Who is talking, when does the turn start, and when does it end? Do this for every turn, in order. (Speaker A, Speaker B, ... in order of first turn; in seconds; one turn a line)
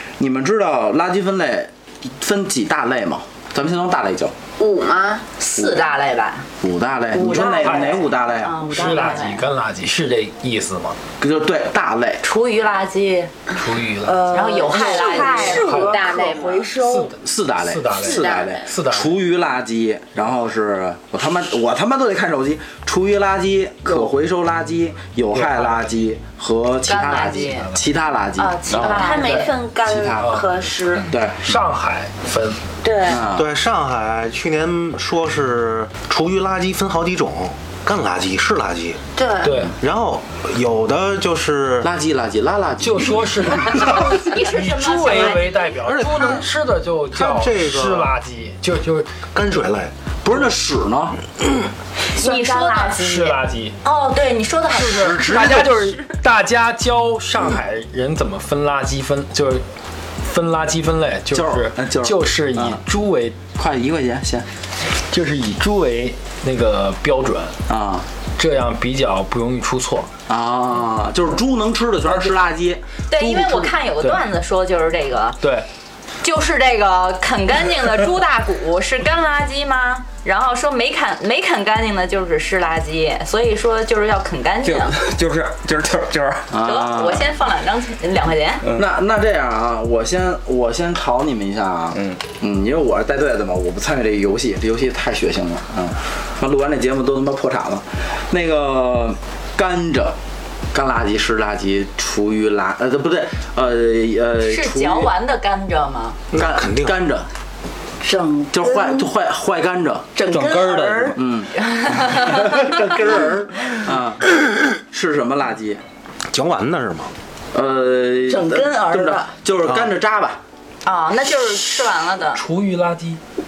Speaker A: 0.2-4.3
Speaker B: 4.6-5.2
Speaker C: 5.4-6.5
Speaker A: 5.6-5.8
Speaker A: 6.6-8.7
Speaker D: 7.1-8.1
Speaker E: 7.2-8.0
Speaker C: 8.4-9.4
Speaker D: 8.7-9.2
Speaker E: 8.7-11.0
Speaker A: 11.2-12.2
Speaker C: 12.2-13.3
Speaker E: 13.6-14.4
Speaker D: 14.0-17.1
Speaker C: 14.3-15.7
Speaker B: 14.6-16.8
Speaker E: 15.4-16.2
Speaker E: 16.8-19.2
Speaker A: 17.2-29.0
Speaker B: 17.9-18.7
Speaker D: 23.9-24.1
Speaker E: 25.3-26.0
Speaker C: 26.9-27.7
Speaker E: 27.3-27.8
Speaker C: 28.4-29.6
Speaker F: 28.7-29.1
Speaker B: 28.8-31.1
Speaker A: 29.7-30.5
Speaker A: 31.1-31.4
Speaker E: 31.4-32.6
Speaker B: 32.8-33.2
Speaker A: 33.1-33.5
Speaker G: 33.3-39.0
Speaker B: 39.1-39.6
Speaker E: 39.4-39.7
Speaker G: 39.8-41.9
Speaker A: 41.8-44.0
Speaker E: 42.8-49.1
Speaker C: 43.8-45.7
Speaker G: 45.8-46.5
Speaker G: 47.1-48.1
Speaker G: 49.3-49.9
Speaker A: 50.2-51.2
Speaker D: 52.1-53.4
Speaker C: 52.2-55.5
Speaker E: 53.0-53.8
Speaker E: 54.7-59.6
Speaker A: 55.1-55.6
Speaker E: 60.2-63.4
Speaker A: 61.3-62.8
Speaker A: 63.5-64.5
Speaker E: 65.1-67.6
Speaker A: 67.7-68.0
Speaker E: 68.4-70.1
Speaker A: 70.3-72.8
Speaker C: 73.1-75.4
Speaker E: 73.2-74.2
Speaker E: 75.4-75.7
Speaker C: 76.2-85.0
Speaker F: 84.6-86.6
Speaker A: 86.5-87.3
Speaker C: 86.6-88.7
Speaker F: 88.6-88.9
Speaker A: 88.8-100.2
Speaker F: 91.9-92.2
Speaker A: 100.7-105.1
Speaker C: 104.4-106.2
Speaker G: 106.3-107.0
Speaker A: 106.3-107.3
Speaker D: 108.0-109.1
Speaker A: 108.5-110.1
Speaker D: 110.2-111.2
Speaker F: 110.3-111.2
Speaker A: 111.2-114.3
Speaker C: 111.6-112.5
Speaker A: 114.9-115.8
Speaker G: 116.3-117.1
Speaker A: 117.5-120.4
Speaker D: 118.3-119.3
Speaker G: 119.6-119.9
Speaker C: 120.8-122.4
Speaker E: 122.3-123.2